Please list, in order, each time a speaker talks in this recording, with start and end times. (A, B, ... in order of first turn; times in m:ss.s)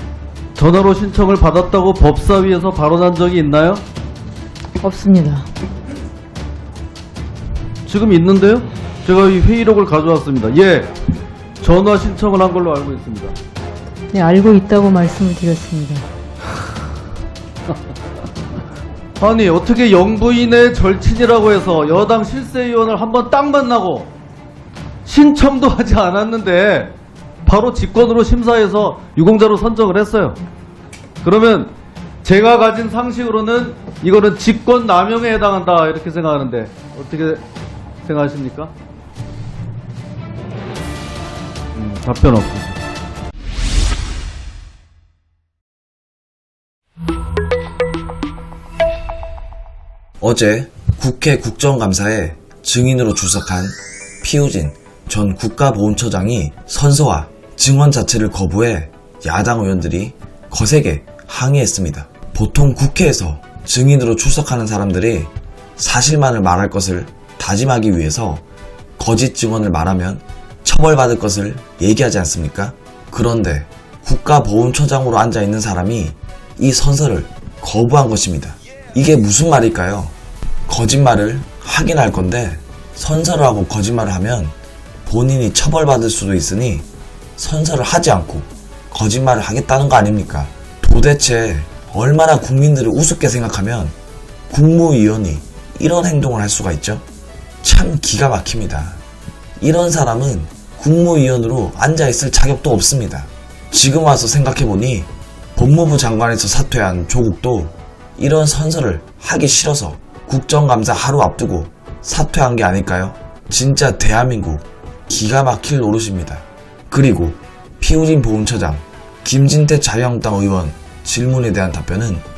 0:00.6-0:03.8 A
0:04.8-0:05.5 B
0:07.9-0:10.9 A
0:11.6-0:13.3 A
0:14.1-0:16.0 B
0:19.2-0:24.1 A
0:25.1-0:26.9 A
0:27.5-0:30.4 A
0:31.2-0:31.7 A
0:32.2-0:37.4 A
0:38.0-0:38.7 A
0:41.7-0:42.8 A
0:50.2-1:08.4 C
1:09.0-1:20.1 C
1:20.7-1:24.6 C
1:25.1-1:34.0 C
1:34.5-1:37.0 C
1:37.6-1:39.0 C
1:39.6-2:02.2 C